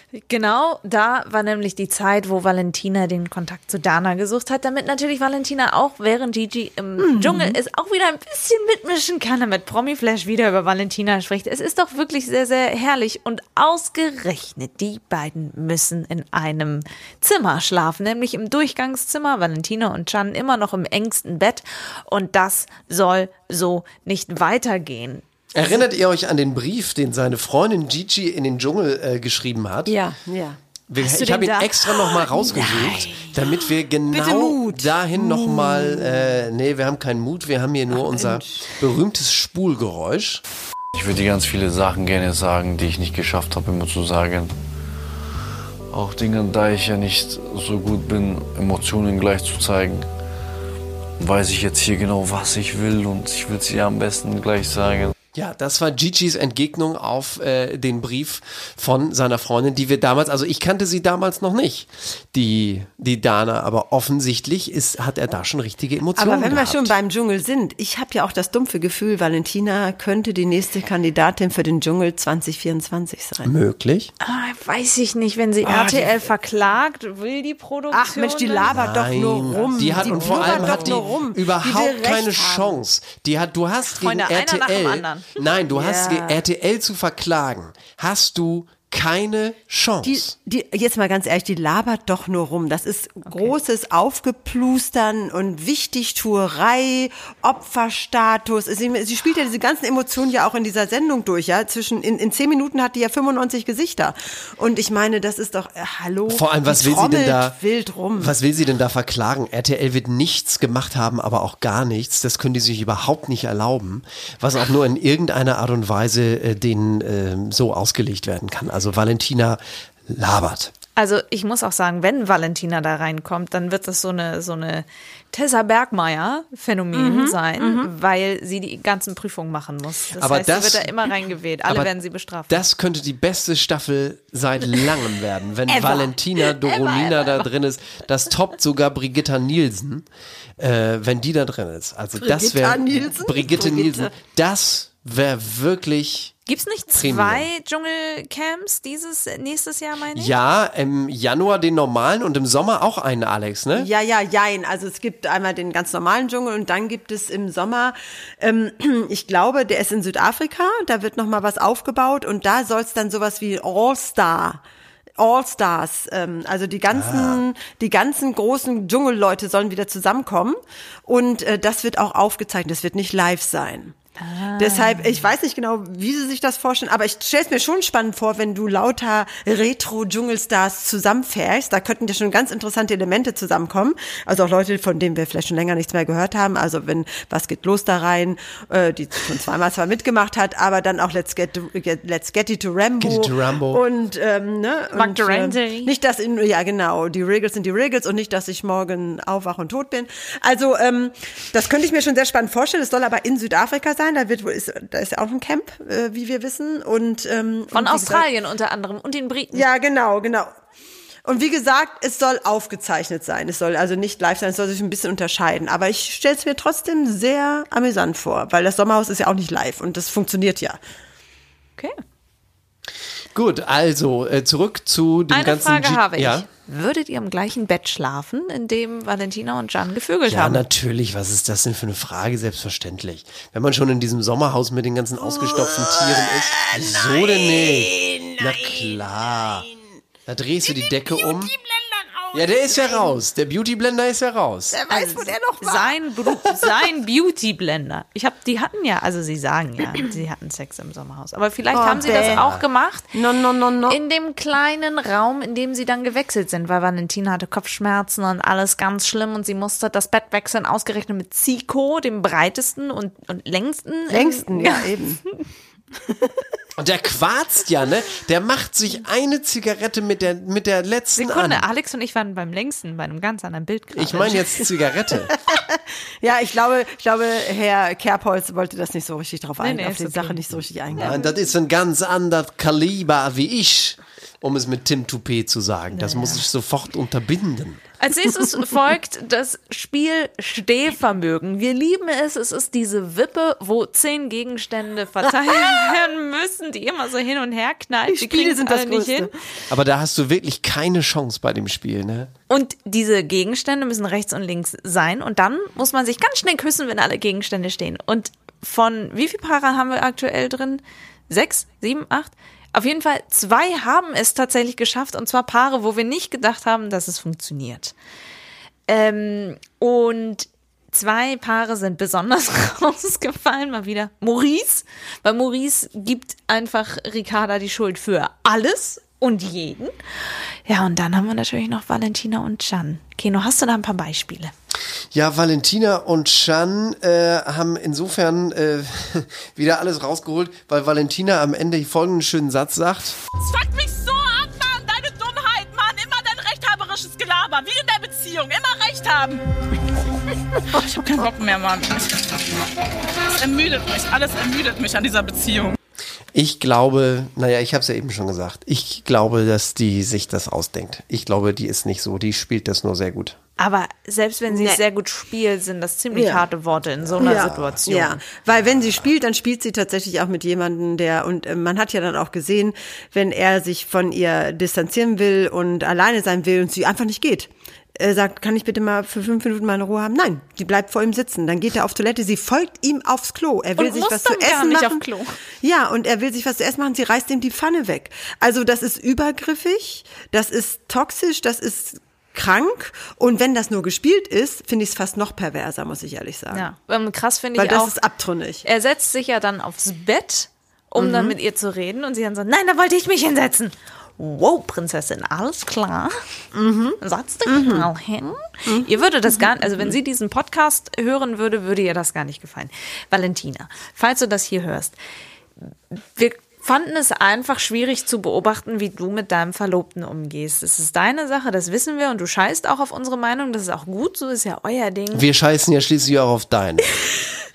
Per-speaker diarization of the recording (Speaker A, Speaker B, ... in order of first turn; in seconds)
Speaker A: 0.1-25.2, 31.0-33.4, 74.2-78.7, 79.9-81.0, 83.9-85.3, 93.2-93.5, 121.0-132.6, 135.7-137.5, 146.5-150.3, 174.2-175.3, 194.9-195.9, 207.7-209.7, 225.3-230.6, 244.9-253.1, 253.9-264.9, 271.2-274.4, 279.6-280.4, 285.9-286.4, 288.0-299.3, 302.5-317.9, 318.9-329.9, 330.7-334.5, 363.6-368.2, 383.8-385.4, 396.5-397.9, 398.6-406.2, 407.0-414.9, 415.9-425.2
Speaker B: 7.0-7.6, 29.9-30.6, 34.1-36.3, 37.9-38.6, 66.2-73.5, 75.6-76.3, 77.9-82.8, 85.7-86.4, 90.0-108.3, 126.9-127.9, 142.2-144.1, 153.8-164.6, 165.2-173.9, 174.6-208.2, 209.5-210.5, 211.2-220.8, 235.3-239.0, 241.3-241.6, 244.7-245.9, 251.7-252.4, 253.1-254.0, 264.1-265.2, 275.5-281.2, 295.5-295.9, 298.1-299.3, 364.5-364.8, 366.1-366.4, 367.2-385.0, 385.6-396.7, 397.6-398.6, 401.0-401.3, 406.5-407.9, 408.7-409.9
Speaker C: 25.5-29.9, 30.9-40.4, 55.3-66.9, 73.4-74.1, 78.7-90.3, 106.3-107.6, 108.2-120.7, 130.1-130.9, 131.7-131.9, 132.5-140.1, 140.6-146.4, 146.9-147.5, 150.1-153.9, 166.9-167.4, 193.0-193.8, 223.3-226.5, 230.3-239.7, 240.3-241.5, 242.3-244.8, 251.9-252.6, 266.8-271.6, 273.9-275.3, 280.9-287.8, 299.7-302.3, 335.1-343.1, 356.3-363.4, 367.0-367.9, 368.6-369.1, 425.1-426.9
Speaker D: 40.9-44.5, 45.9-50.1, 51.2-55.1
Speaker E: 343.4-349.4, 350.7-352.4, 353.3-355.8